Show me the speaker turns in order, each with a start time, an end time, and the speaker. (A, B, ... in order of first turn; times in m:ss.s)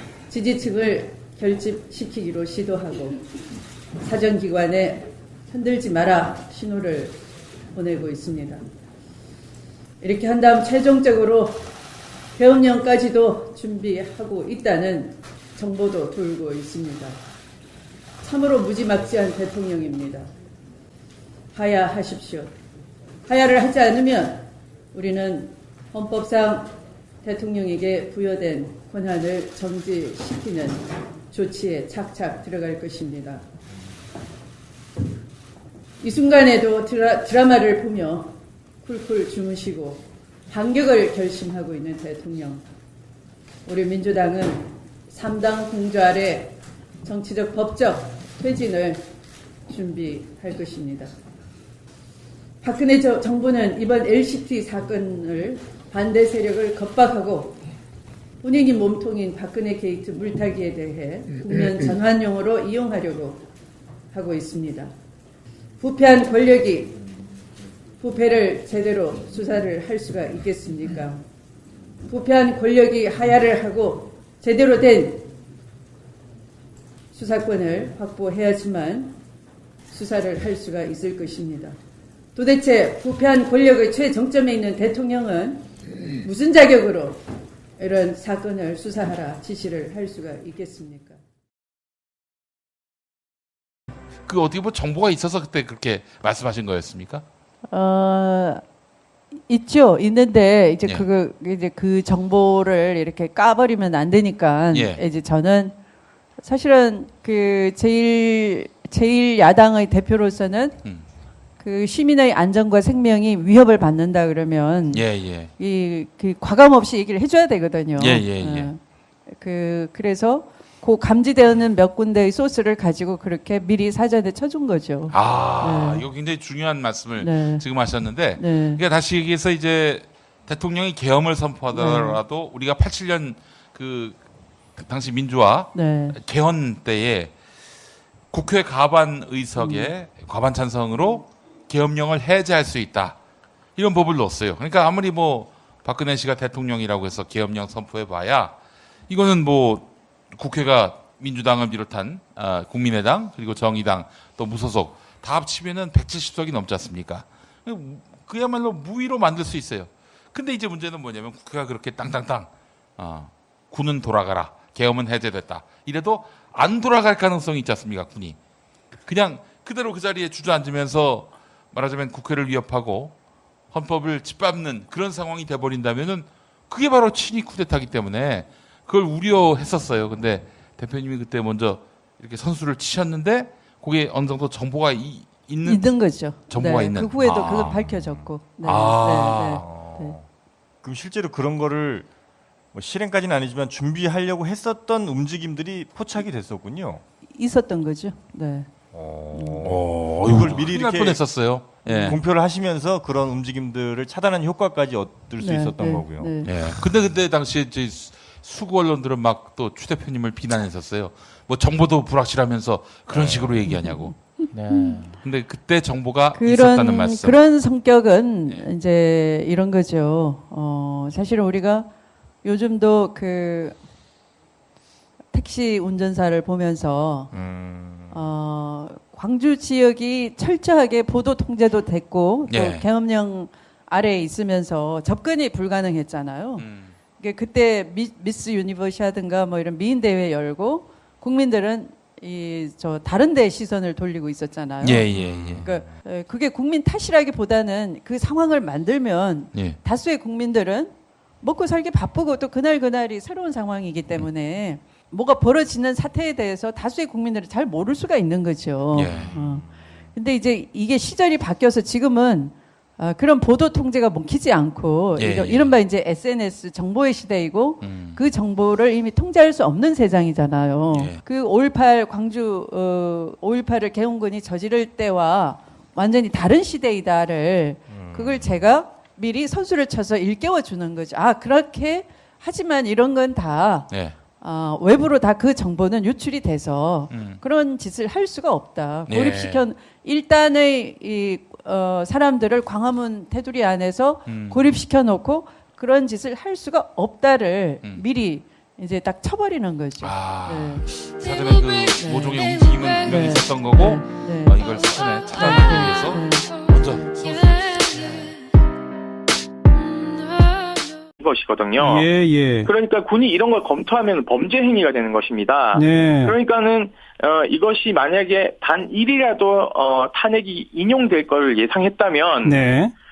0:00.3-0:03.2 A
0:04.0-0:07.2 A
0:07.7-0:08.6 A
0:10.0-0:11.7 A
0:12.4-0:17.2 A
0:18.2-0:20.3 A
0:21.5-0:22.5 A
0:23.3-0:26.7 A
0:27.2-0:33.4 A
0:36.0-0:38.3 A
0:38.8-0:42.6 A
0:43.6-0:49.0 A
0:49.7-0:51.1 A
0:52.6-0:57.6 A
0:58.4-1:03.4 A
1:04.1-1:04.9 A
1:05.8-1:07.0 A
1:08.0-1:11.2 A
1:12.1-1:15.3 A
1:17.1-1:19.1 A
1:19.9-1:21.7 A
1:22.3-1:25.7 A
1:26.2-1:27.2 A
1:27.8-1:31.2 A
1:34.2-1:37.2 B
1:37.7-1:38.6 C
1:39.5-1:45.8 C
1:44.7-1:45.0 B
1:46.4-1:50.8 C
1:51.6-1:58.8 C
1:54.9-1:55.5 B
1:57.9-1:58.7 B
1:59.4-2:06.0 C
2:05.1-2:14.2 B
2:07.2-2:07.6 C
2:08.4-2:08.8 C
2:11.7-2:12.2 C
2:14.8-2:17.3 B
2:15.7-2:16.2 C
2:18.3-2:23.2 B
2:19.6-2:19.9 C
2:23.8-2:28.6 B
2:29.1-2:48.4 B
2:49.0-2:53.2 B
2:53.7-3:09.6 B
3:05.6-3:10.2 C
3:07.6-3:08.2 D
3:09.5-3:10.3 D
3:10.8-3:12.1 D
3:12.7-3:17.0 D
3:17.3-3:18.7 C
3:18.9-3:21.3 D
3:19.3-3:19.6 C
3:19.6-3:22.2 B
3:21.8-3:26.9 D
3:21.9-3:22.1 C
3:25.4-3:26.5 C
3:26.4-3:37.4 B
3:33.1-3:33.6 D
3:33.6-3:35.0 C
3:36.3-3:41.9 C
3:42.4-3:43.8 C
3:45.3-3:47.3 C
3:47.3-3:48.2 D
3:48.1-5:00.8 C
3:52.5-3:52.9 B
3:56.6-3:56.9 B
4:04.8-4:05.7 B
4:05.1-4:05.9 D
4:09.5-4:09.8 B
4:18.9-4:19.4 B
4:19.1-4:19.7 D
4:25.2-4:25.7 B
4:27.8-4:28.2 B
4:30.9-4:31.2 B
4:37.9-4:38.6 D
4:43.9-4:44.2 B
4:47.1-4:47.4 B
4:49.1-4:49.6 B
4:54.2-4:54.8 B
5:00.0-5:08.4 B
5:01.9-5:02.5 C
5:03.0-5:04.6 C
5:05.3-5:06.6 C
5:11.2-5:12.1 E
5:11.8-5:12.7 F
5:12.6-5:22.6 E
5:15.7-5:16.4 F
5:22.4-5:22.9 F